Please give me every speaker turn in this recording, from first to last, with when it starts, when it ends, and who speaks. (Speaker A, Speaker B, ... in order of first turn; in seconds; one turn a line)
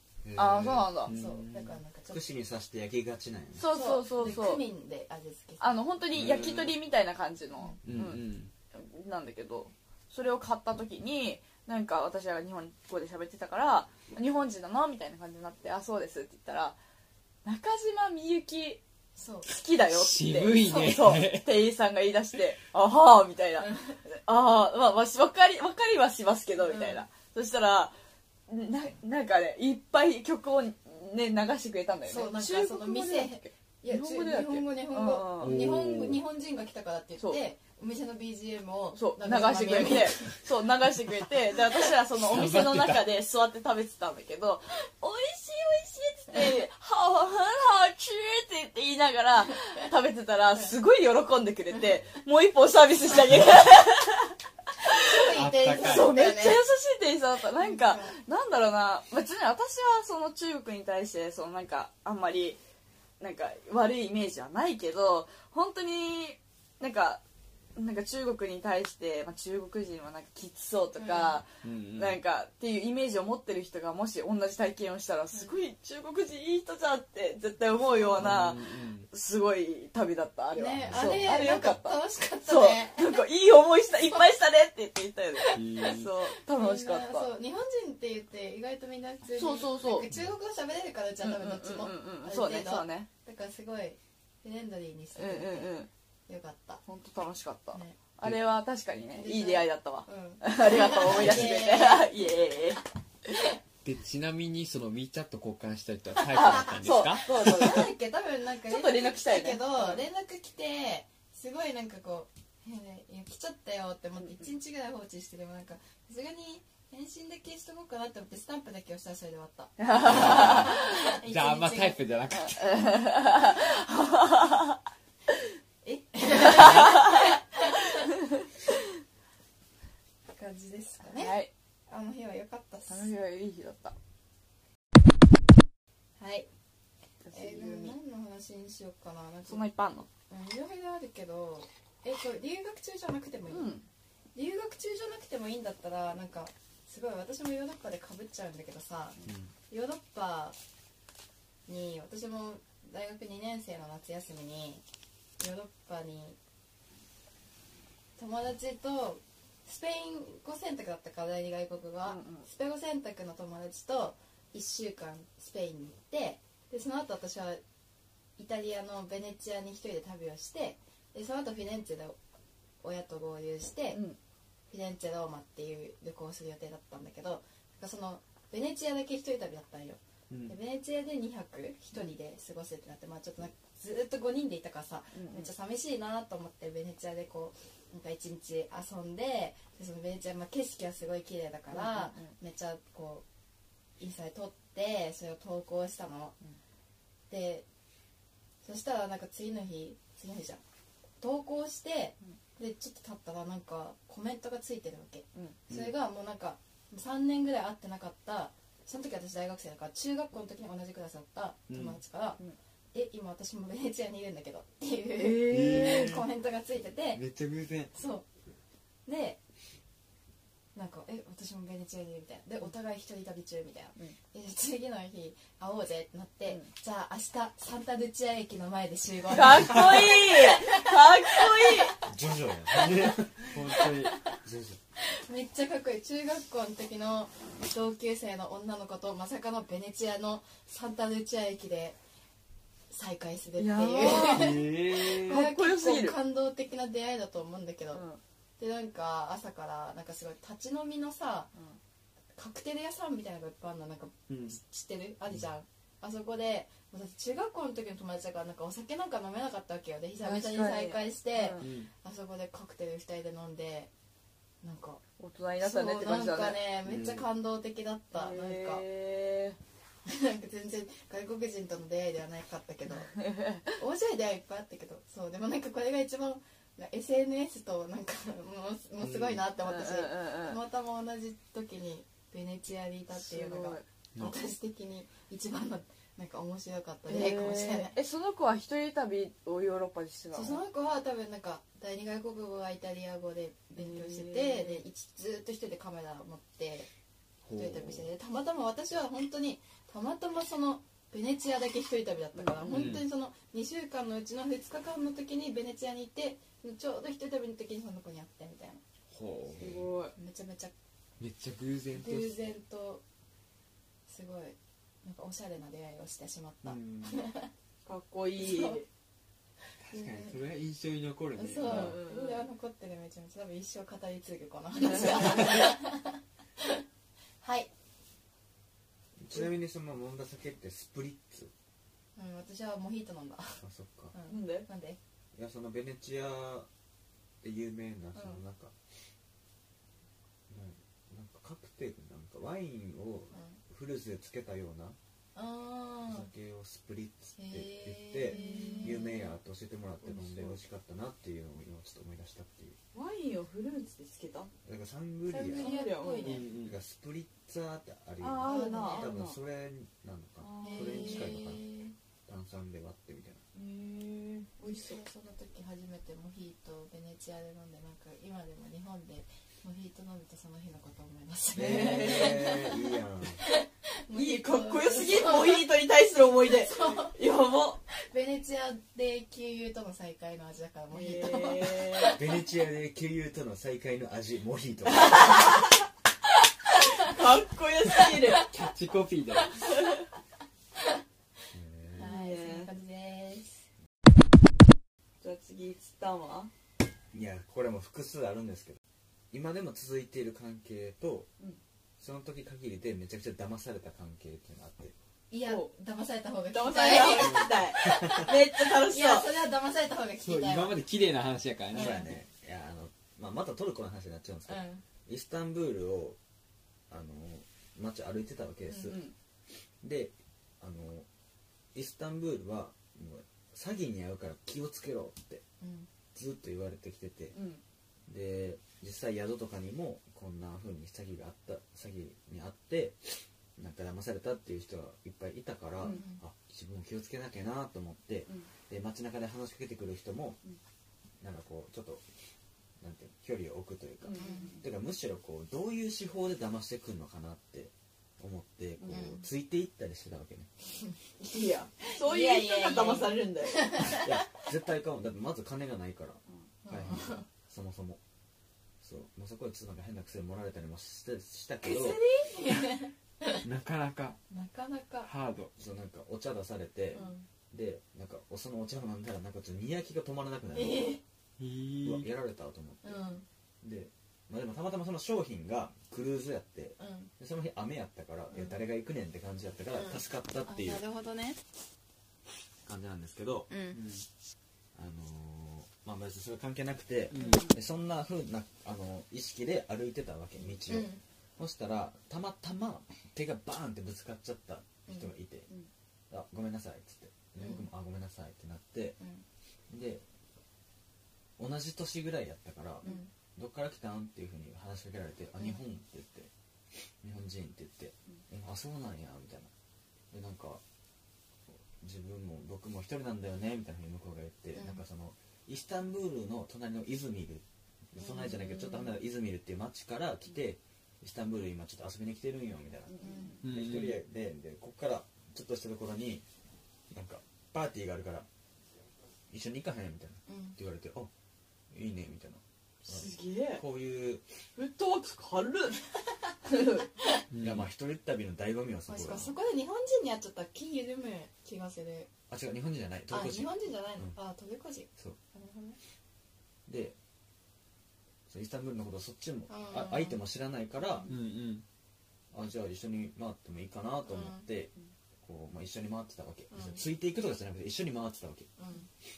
Speaker A: 0.2-0.9
Speaker B: 0.3-1.1
Speaker C: 0.9-1.8
Speaker D: 1.1-2.2
Speaker A: 2.1-3.6
Speaker B: 3.6-4.7
Speaker D: 3.6-5.8
Speaker B: 5.6-16.8
Speaker C: 6.1-6.7
Speaker A: 6.2-6.5
Speaker C: 7.8-8.5
Speaker B: 17.4-18.8
Speaker D: 19.1-19.5
Speaker B: 19.4-27.9
Speaker C: 19.9-21.6
Speaker D: 20.6-21.0
Speaker D: 23.6-24.0
Speaker D: 26.6-27.0
Speaker B: 28.5-35.7
Speaker D: 32.1-40.4
Speaker C: 35.4-36.2
Speaker B: 38.9-54.3
Speaker C: 42.1-43.1
Speaker D: 54.8-56.6
Speaker C: 55.3-56.1
Speaker B: 55.8-62.6
Speaker D: 57.6-58.1
Speaker B: 63.2-67.2
Speaker B: 67.8-87.3
Speaker D: 71.0-71.4
Speaker C: 71.6-72.2
Speaker D: 77.8-78.5
Speaker C: 78.2-79.1
Speaker D: 80.5-83.2
Speaker A: 80.8-81.3
Speaker D: 85.3-96.8
Speaker C: 85.5-86.1
Speaker B: 89.3-90.1
Speaker B: 91.2-93.1
Speaker B: 95.2-95.9
Speaker B: 96.8-102.8
Speaker D: 97.7-98.0
Speaker D: 99.1-102.1
Speaker C: 101.1-101.6
Speaker C: 103.8-107.8
Speaker B: 106.2-107.9
Speaker D: 106.3-106.6
Speaker D: 107.3-122.0
Speaker B: 108.6-110.0
Speaker B: 119.8-120.8
Speaker C: 120.0-122.7
Speaker B: 122.4-124.8
Speaker D: 125.8-128.1
Speaker B: 126.4-127.3
Speaker B: 128.2-128.4
Speaker D: 130.3-133.1
Speaker B: 131.1-131.5
Speaker B: 132.9-133.9
Speaker D: 136.2-136.5
Speaker B: 137.2-137.9
Speaker D: 137.3-139.6
Speaker B: 139.5-140.1
Speaker D: 140.3-143.7
Speaker B: 143.5-143.8
Speaker D: 144.3-149.2
Speaker D: 149.7-150.6
Speaker D: 151.7-154.8
Speaker D: 155.4-156.4
Speaker D: 158.2-167.6
Speaker B: 162.1-162.5
Speaker D: 168.4-172.2
Speaker D: 172.8-174.0
Speaker B: 173.9-174.2
Speaker D: 174.7-193.2
Speaker C: 180.3-180.5
Speaker B: 185.1-185.5
Speaker B: 191.7-192.3
Speaker D: 194.0-196.3
Speaker D: 197.3-197.6
Speaker D: 198.6-200.6
Speaker D: 201.2-212.4
Speaker C: 211.7-212.0
Speaker D: 212.9-217.2
Speaker B: 215.2-216.1
Speaker C: 215.5-216.3
Speaker C: 217.1-217.9
Speaker D: 217.9-218.2
Speaker D: 219.1-219.4
Speaker D: 220.7-232.0
Speaker B: 229.3-231.9
Speaker A: 232.0-233.5
Speaker D: 232.7-234.4
Speaker C: 233.4-234.2
Speaker A: 234.4-234.8
Speaker D: 235.0-242.0
Speaker D: 242.9-248.0
Speaker B: 243.6-246.2
Speaker C: 244.3-245.4
Speaker B: 247.9-248.2
Speaker D: 248.6-251.5
Speaker D: 252.3-263.9
Speaker C: 254.3-254.6
Speaker B: 260.2-261.7
Speaker C: 261.6-261.9
Speaker D: 264.6-265.0
Speaker B: 265.2-266.7
Speaker D: 265.6-268.8
Speaker C: 266.8-267.2
Speaker B: 268.1-269.6
Speaker D: 270.1-273.1
Speaker B: 273.0-273.8
Speaker D: 273.7-287.9
Speaker C: 279.0-279.4
Speaker B: 279.6-280.6
Speaker B: 283.1-283.8
Speaker B: 287.1-290.6
Speaker D: 290.3-296.9
Speaker B: 293.8-294.8
Speaker C: 297.4-298.1
Speaker D: 297.5-308.8
Speaker B: 302.4-303.0
Speaker C: 302.7-303.0
Speaker C: 309.1-309.9
Speaker B: 309.6-310.1
Speaker D: 310.1-310.7
Speaker C: 311.2-312.4
Speaker D: 311.9-313.0
Speaker D: 314.1-317.5
Speaker C: 316.6-317.2
Speaker B: 317.9-318.9
Speaker D: 318.4-318.8
Speaker C: 319.8-322.0
Speaker D: 319.9-320.3
Speaker D: 321.4-326.8
Speaker B: 321.6-322.4
Speaker B: 324.9-325.7
Speaker D: 327.4-327.7
Speaker A: 329.2-331.5
Speaker D: 332.1-335.0
Speaker A: 333.6-334.1
Speaker B: 334.3-334.6
Speaker A: 335.3-336.7
Speaker A: 337.4-338.7
Speaker D: 338.1-338.4
Speaker A: 340.5-345.0
Speaker D: 343.3-343.6
Speaker D: 345.4-346.3
Speaker A: 346.1-352.8
Speaker D: 347.4-349.3
Speaker B: 348.2-349.3
Speaker B: 350.0-350.6
Speaker B: 352.9-354.5
Speaker A: 354.6-355.8
Speaker B: 355.3-356.4
Speaker D: 355.5-356.4
Speaker C: 356.2-356.8
Speaker A: 356.5-361.6
Speaker B: 358.2-359.4
Speaker D: 358.4-359.1
Speaker B: 360.4-361.6
Speaker D: 360.6-361.8
Speaker A: 362.3-363.4
Speaker B: 363.5-365.0
Speaker D: 364.6-372.7
Speaker A: 371.5-373.4
Speaker B: 371.6-372.6
Speaker D: 373.4-375.7
Speaker B: 374.1-377.8
Speaker D: 376.4-377.1
Speaker D: 378.0-382.2
Speaker B: 380.9-382.2
Speaker A: 382.1-385.6
Speaker B: 384.9-385.8
Speaker B: 386.6-388.5
Speaker C: 388.4-389.7
Speaker B: 389.6-389.9
Speaker A: 391.5-392.1
Speaker B: 391.9-392.7
Speaker D: 391.9-393.6
Speaker B: 395.2-396.5
Speaker A: 397.1-398.8
Speaker A: 399.3-401.3
Speaker A: 402.0-404.9
Speaker D: 405.3-410.8
Speaker B: 406.5-409.3
Speaker A: 407.9-408.2
Speaker C: 410.2-412.0
Speaker A: 411.7-416.2
Speaker D: 411.8-412.1
Speaker D: 414.5-414.8
Speaker A: 416.9-419.0
Speaker B: 418.8-419.1
Speaker A: 419.8-421.1
Speaker A: 421.7-425.4
Speaker D: 425.6-425.9
Speaker A: 426.1-427.4
Speaker B: 427.3-427.6
Speaker A: 428.1-440.4
Speaker D: 435.8-436.2
Speaker A: 441.2-442.0
Speaker A: 442.8-450.5
Speaker B: 444.0-444.6
Speaker D: 444.1-444.6
Speaker B: 448.8-449.1
Speaker D: 448.9-449.2
Speaker B: 451.2-453.9
Speaker D: 451.8-454.2
Speaker A: 453.8-458.0
Speaker D: 456.6-457.2
Speaker A: 458.8-462.0
Speaker D: 461.6-463.4
Speaker C: 463.4-464.2
Speaker D: 464.3-465.1
Speaker C: 465.0-465.5
Speaker A: 465.6-471.0
Speaker D: 466.9-467.2
Speaker D: 470.5-471.0
Speaker C: 471.4-472.1
Speaker A: 471.8-473.0
Speaker D: 472.8-473.2
Speaker A: 473.6-480.8
Speaker D: 476.8-477.1
Speaker D: 479.7-481.4
Speaker A: 482.6-483.5
Speaker D: 483.5-483.8
Speaker C: 483.7-484.1
Speaker A: 484.7-495.5
Speaker C: 487.1-487.4
Speaker D: 487.2-487.5
Speaker B: 487.2-487.5
Speaker D: 490.7-491.0
Speaker D: 494.9-495.1
Speaker A: 496.1-499.0
Speaker D: 497.4-497.6
Speaker D: 499.0-499.2
Speaker A: 499.7-500.0
Speaker A: 501.4-506.3
Speaker D: 502.8-503.1
Speaker A: 507.0-509.5
Speaker A: 510.1-510.6
Speaker A: 511.5-526.2
Speaker D: 514.5-514.8
Speaker D: 518.0-518.9
Speaker B: 522.9-523.3
Speaker D: 523.0-523.4
Speaker C: 523.4-524.0
Speaker A: 526.9-528.3
Speaker A: 529.3-531.1
Speaker D: 530.3-530.5
Speaker A: 531.7-534.2
Speaker B: 532.8-533.6
Speaker B: 534.5-535.8
Speaker B: 536.5-536.9
Speaker C: 537.3-537.6
Speaker A: 537.3-539.3
Speaker D: 538.9-542.1
Speaker A: 542.3-544.1
Speaker D: 543.1-545.8
Speaker A: 546.7-547.0
Speaker A: 548.3-551.1
Speaker D: 549.5-550.2
Speaker C: 551.1-551.6
Speaker A: 552.3-554.7
Speaker D: 554.1-554.4
Speaker A: 555.2-558.5
Speaker D: 556.5-556.8
Speaker D: 558.6-558.9